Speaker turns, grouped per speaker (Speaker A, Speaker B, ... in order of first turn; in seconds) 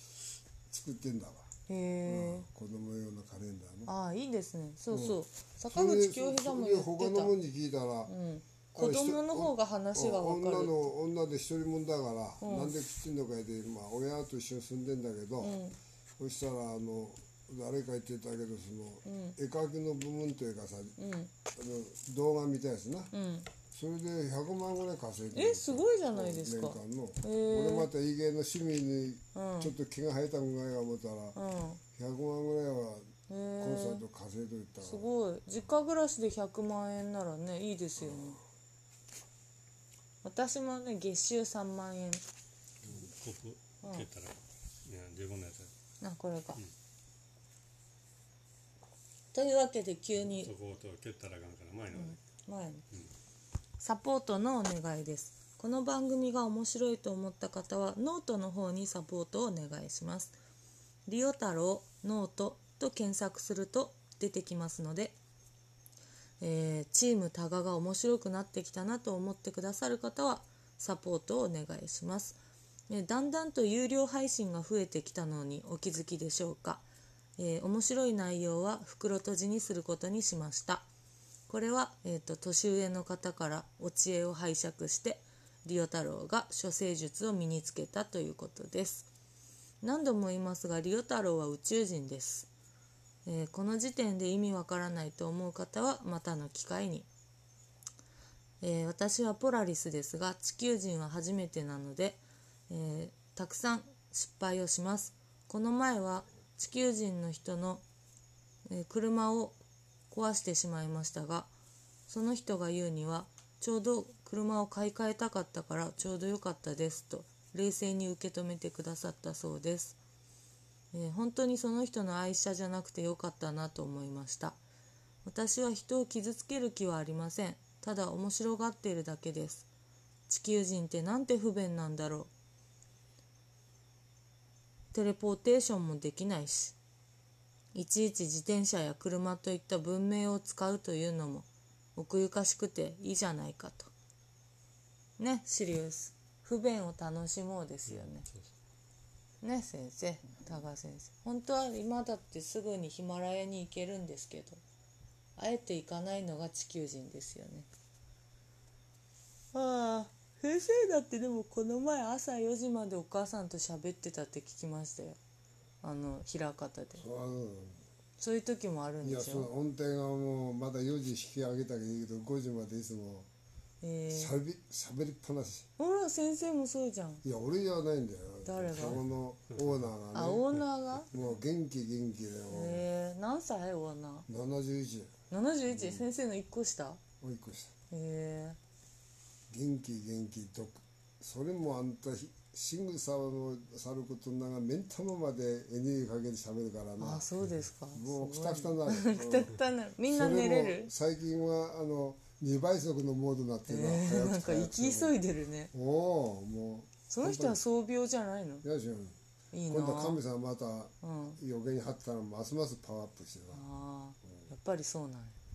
Speaker A: 0.7-1.5, 2.0-3.9, 4.9-5.2, 5.7-8.1, 8.7-15.6, 16.2-20.9, 21.5-23.1, 23.7-31.4, 31.9-33.1, 33.6-35.1, 38.0-38.3, 167.0-167.8, 169.0-173.3, 174.1-175.7, 177.2-180.5, 181.1-182.8, 184.3-185.1, 185.7-186.1, 187.2-187.7, 189.5-197.3, 197.9-199.6, 200.1-205.2, 205.7-207.6, 208.6-209.2, 209.7-213.6
Speaker B: 1.7-2.5, 3.9-7.3, 8.1-10.9, 12.4-12.8, 15.4-15.8, 19.0-19.4, 21.0-21.3, 23.1-23.5, 25.3-27.9, 29.3-29.7, 31.4-31.8, 33.3-34.0, 34.8-38.4, 40.2-42.2, 46.0-46.6, 49.3-50.5, 51.9-52.8, 53.8-60.3, 61.1-65.2, 66.4-72.4, 72.9-76.8, 77.4-80.8, 81.5-89.1, 89.8-92.5, 93.2-97.1, 98.6-107.8, 108.7-109.6, 110.1-111.5, 112.1-120.0, 120.9-124.6, 125.2-129.7, 130.3-132.3, 134.9-136.8, 137.7-143.9, 145.2-148.2, 149.4-154.6, 155.3-157.7, 159.5-165.2, 165.8-167.0, 168.2-169.5, 173.8-174.3, 175.8-177.2, 178.4-179.0, 180.1-181.1, 182.5-184.3, 185.3-187.0, 187.9-188.6, 197.0-200.9, 203.7-205.7, 207.1-208.6, 209.5-210.2, 211.0-211.4, 213.5-215.4
Speaker C: 42.9-45.7, 50.3-52.2, 147.9-148.5